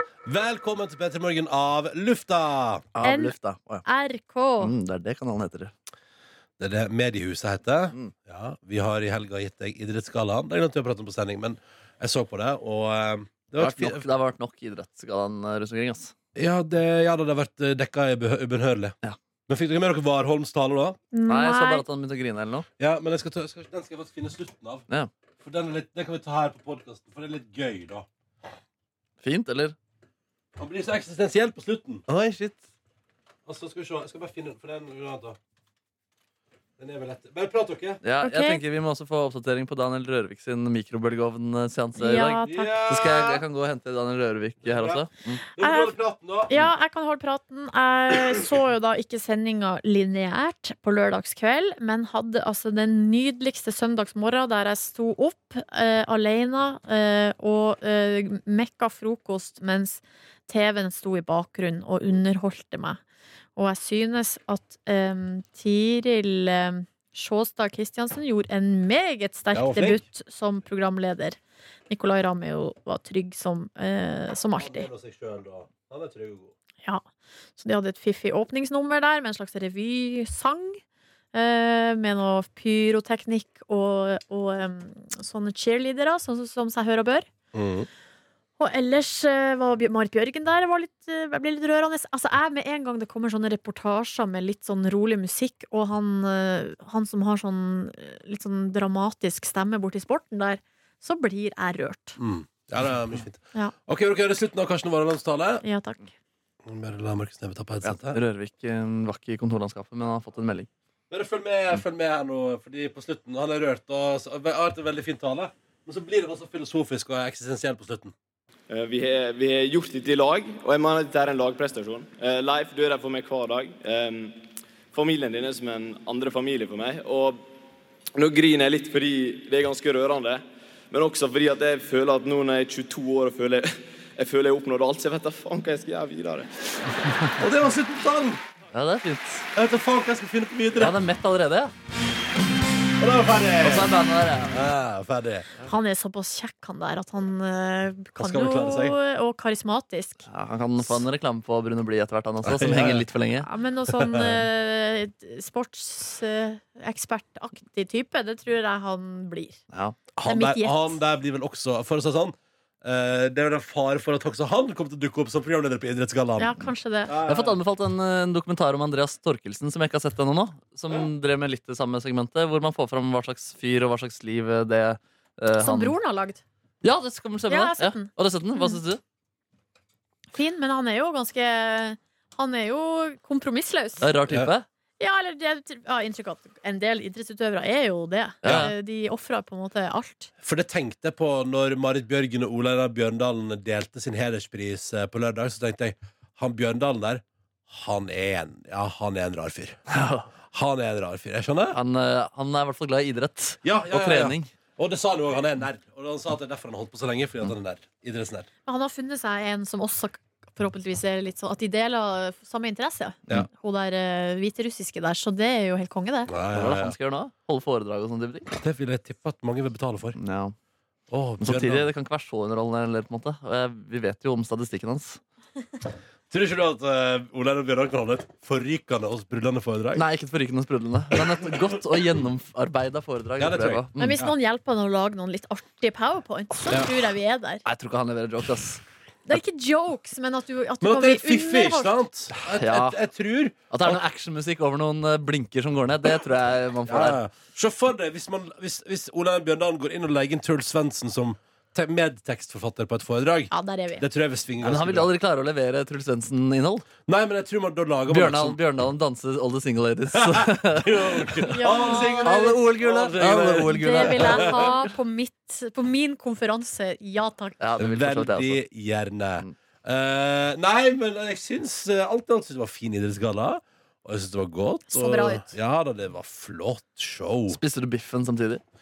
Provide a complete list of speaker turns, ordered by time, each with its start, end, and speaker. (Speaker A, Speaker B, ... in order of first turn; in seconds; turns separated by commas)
Speaker A: 0.2-2.8, Speaker B: 2.9-3.8, Speaker C: 3.0-4.7, Speaker B: 4.6-5.7, Speaker A: 6.6-14.1, Speaker B: 13.6-16.1, Speaker A: 16.4-18.9, Speaker A: 19.5-21.0, Speaker C: 21.1-21.8, Speaker B: 21.3-22.7, Speaker A: 22.8-24.8, Speaker A: 25.4-28.1, Speaker B: 29.2-29.7, Speaker A: 30.6-32.0, Speaker B: 32.1-32.6, Speaker A: 33.5-35.4, Speaker A: 36.8-38.0, Speaker B: 38.0-45.4, Speaker C: 38.2-38.6, Speaker C: 42.0-42.8, Speaker A: 42.4-43.4, Speaker A: 44.6-45.0, Speaker C: 45.5-45.9, Speaker A: 45.5-46.5, Speaker C: 46.5-63.0, Speaker C: 63.5-71.4, Speaker A: 69.5-70.0, Speaker C: 71.9-74.9, Speaker A: 74.5-76.5, Speaker C: 77.6-80.8, Speaker C: 81.3-87.3, Speaker A: 87.5-87.9, Speaker C: 88.6-102.2, Speaker A: 102.2-105.6, Speaker C: 105.6-106.1, Speaker A: 106.6-108.2, Speaker B: 107.8-110.7, Speaker A: 111.1-118.1, Speaker D: 118.7-124.4, Speaker D: 124.9-127.4, Speaker D: 128.1-136.7, Speaker A: 137.4-138.4, Speaker B: 138.7-139.5, Speaker A: 139.5-141.0, Speaker B: 140.8-141.7, Speaker A: 143.0-143.9, Speaker B: 143.6-144.6, Speaker A: 144.5-145.5, Speaker C: 145.6-150.3, Speaker A: 148.2-149.0, Speaker B: 150.3-153.5, Speaker A: 152.4-153.1, Speaker C: 153.4-159.6, Speaker A: 153.9-154.4, Speaker B: 159.7-160.0, Speaker A: 160.2-167.6, Speaker C: 160.2-161.0, Speaker C: 166.4-167.1, Speaker B: 167.2-175.9, Speaker C: 175.6-176.4, Speaker B: 176.8-179.0, Speaker C: 177.5-178.7, Speaker C: 180.3-184.1, Speaker B: 184.0-184.7, Speaker C: 185.0-190.3, Speaker B: 188.4-188.7, Speaker A: 188.4-188.7, Speaker A: 190.4-199.8, Speaker B: 199.9-200.3, Speaker A: 200.5-201.8, Speaker B: 201.7-204.5, Speaker A: 203.6-208.5, Speaker C: 208.7-216.3, Speaker A: 216.3-217.0, Speaker B: 216.5-218.5, Speaker A: 218.5-220.2, Speaker B: 220.2-220.6, Speaker A: 221.1-221.9, Speaker B: 221.4-225.2, Speaker A: 226.3-230.0, Speaker B: 229.9-234.2, Speaker A: 233.4-234.3, Speaker C: 234.0-237.6, Speaker B: 237.7-238.8, Speaker C: 239.3-242.0, Speaker A: 240.8-244.0, Speaker B: 242.4-243.0, Speaker B: 243.7-247.2, Speaker A: 246.8-255.1, Speaker C: 253.5-254.0, Speaker B: 254.6-256.9, Speaker A: 257.1-258.6, Speaker B: 258.1-264.6, Speaker A: 260.1-264.7, Speaker C: 261.5-262.4, Speaker C: 263.7-267.6, Speaker B: 267.6-268.6, Speaker A: 267.8-277.6, Speaker C: 274.9-275.5, Speaker B: 277.5-278.6